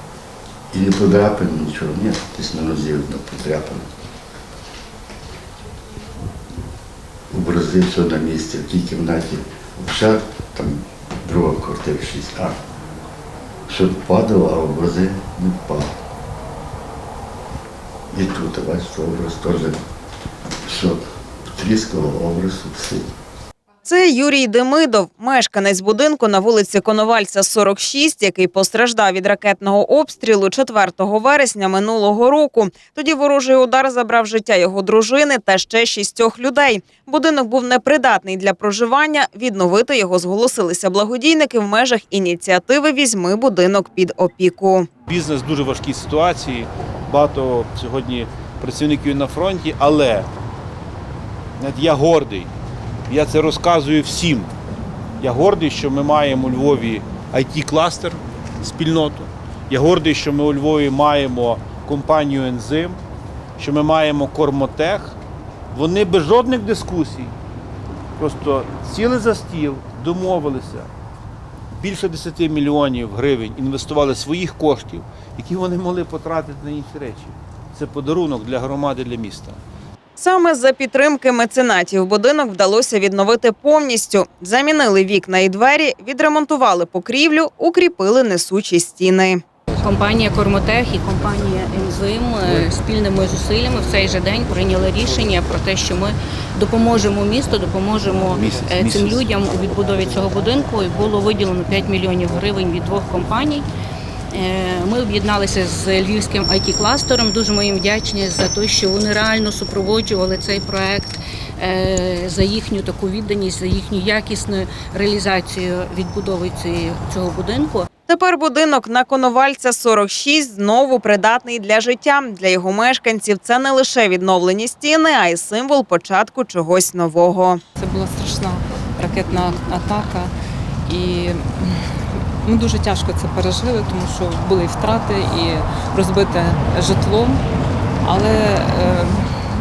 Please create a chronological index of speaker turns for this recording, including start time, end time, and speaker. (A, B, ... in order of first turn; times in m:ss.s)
0:00.7-0:03.8 A
0:07.3-0:12.6 A
0:13.7-0:15.9 A
0:18.1-0:19.8 A
0:20.6-0:23.1 A
0:23.8-0:44.9 B
0:45.0-0:50.3 C
0:51.6-0:52.5 C
0:53.1-0:54.5 C
0:55.2-1:03.0 C
1:03.6-1:05.2 C
1:05.7-1:07.3 C
1:08.2-1:10.9 C
1:11.7-1:19.6 C
1:20.2-1:29.4 B
1:29.8-1:43.6 D
1:38.3-1:39.2 C
1:44.3-1:57.9 D
1:58.1-2:07.6 B
2:07.8-2:10.3 E
2:10.8-2:17.4 E
2:18.0-2:19.3 E